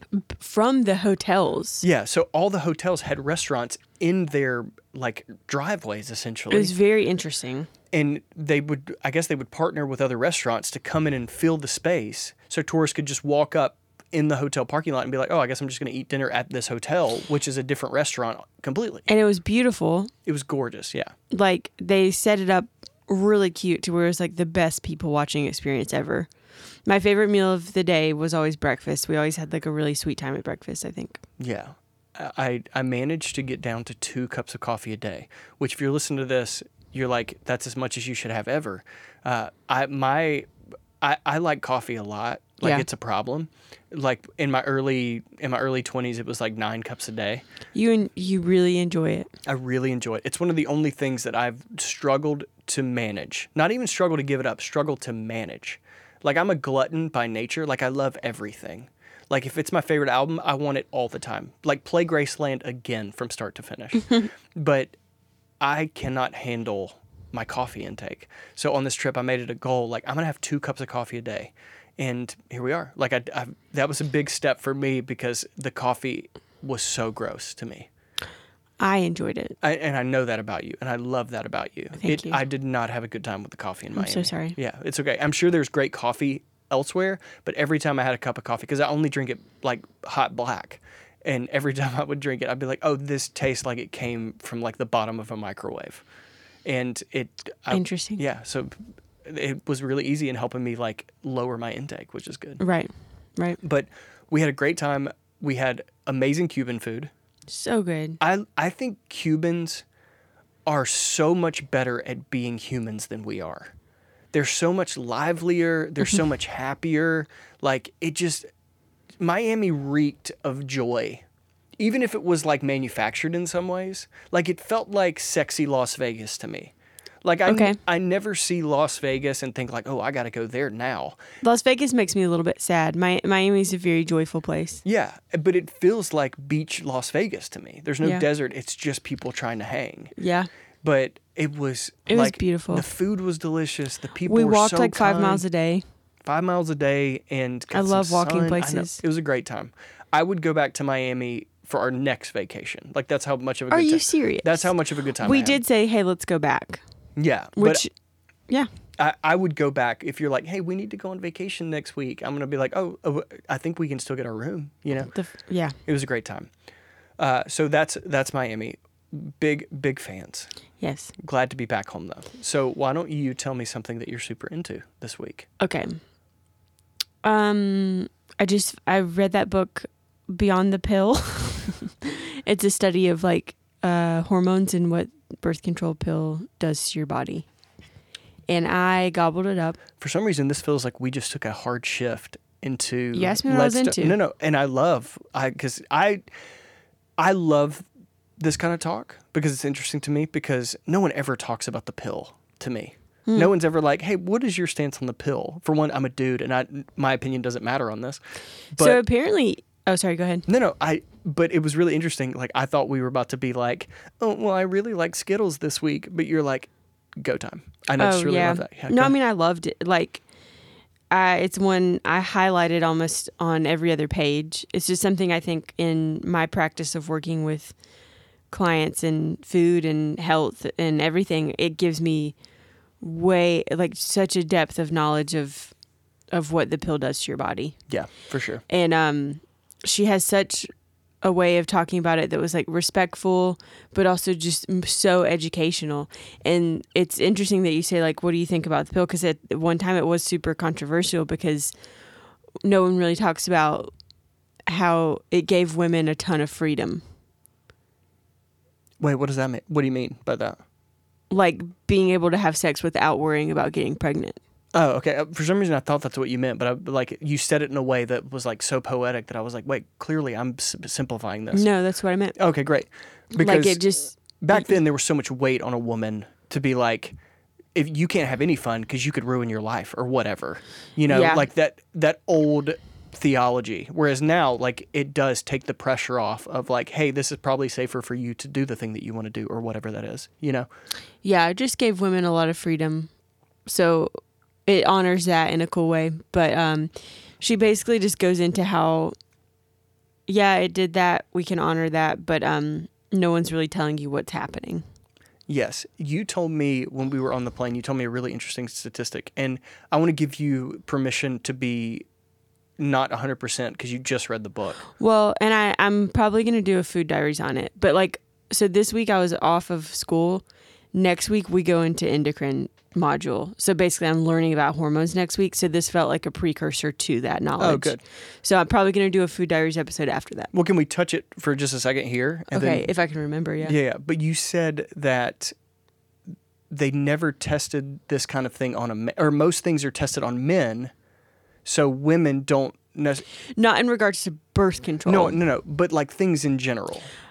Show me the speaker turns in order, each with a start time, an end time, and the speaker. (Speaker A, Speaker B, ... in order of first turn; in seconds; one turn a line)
Speaker A: 0.1-1.9
Speaker B: 1.8-6.7
Speaker A: 6.5-7.7
Speaker B: 7.9-19.1
Speaker A: 19.1-20.1
Speaker B: 20.3-21.1
Speaker A: 21.3-26.3
Speaker A: 26.9-31.2
Speaker B: 31.4-40.5
Speaker B: 41.0-47.4
Speaker A: 47.7-49.3
Speaker B: 49.5-65.0
Speaker B: 65.6-77.9
Speaker A: 78.8-79.6
Speaker B: 79.6-96.0
Speaker A: 82.0-82.4
Speaker A: 84.0-84.6
Speaker B: 96.7-102.6
Speaker A: 97.7-98.2
Speaker A: 102.6-103.6
Speaker B: 103.6-107.1
Speaker A: 107.5-108.2
Speaker B: 108.2-109.8
Speaker B: 110.7-113.7
Speaker B: 114.3-118.5
Speaker B: 119.2-121.2
Speaker B: 121.8-126.7
Speaker B: 127.2-131.2
Speaker A: 127.5-127.8
Speaker A: 131.4-134.8
Speaker B: 134.8-140.2
Speaker A: 140.2-140.5
Speaker B: 140.8-145.4
Speaker A: 142.1-142.8
Speaker A: 144.2-145.8
Speaker B: 146.2-155.6
Speaker A: 147.7-149.0
Speaker A: 153.7-156.8
Speaker B: 157.2-157.8
Speaker A: 157.6-157.9
Speaker B: 159.0-165.1
Speaker A: 165.1-165.8
Speaker B: 165.8-166.5
Speaker B: 167.2-170.5
Speaker A: 170.8-171.1
Speaker B: 171.2-175.5
Speaker A: 175.6-176.0
Speaker A: 177.2-187.5
Speaker A: 188.5-189.8
Speaker B: 190.0-196.2
Speaker A: 193.1-194.2
Speaker B: 197.2-197.8
Speaker B: 198.4-208.2
Speaker B: 208.7-209.0
Speaker A: 208.8-210.5
Speaker B: 210.5-219.2
Speaker A: 218.0-220.2
Speaker A: 221.1-227.7
Speaker A: 228.5-232.3
Speaker A: 233.0-235.7
Speaker A: 236.3-237.8
Speaker B: 237.9-238.6
Speaker A: 238.7-240.7
Speaker A: 241.2-251.7
Speaker A: 252.6-253.9
Speaker A: 254.7-257.0
Speaker B: 259.0-260.6
Speaker A: 261.3-264.4
Speaker B: 264.7-271.7
Speaker A: 271.5-272.4
Speaker B: 272.4-273.8
Speaker A: 273.3-274.7
Speaker B: 274.4-277.1
Speaker B: 277.8-290.7
Speaker A: 281.1-281.5
Speaker A: 291.2-293.1
Speaker A: 293.7-294.1
Speaker A: 294.7-299.1
Speaker A: 300.3-304.8
Speaker B: 305.5-312.1
Speaker B: 312.8-314.8
Speaker A: 315.0-330.5
Speaker B: 327.6-328.0
Speaker B: 330.5-332.9
Speaker A: 332.5-333.8
Speaker B: 333.6-335.5
Speaker B: 336.7-340.9
Speaker B: 341.6-343.3
Speaker A: 343.5-345.4
Speaker B: 345.1-347.1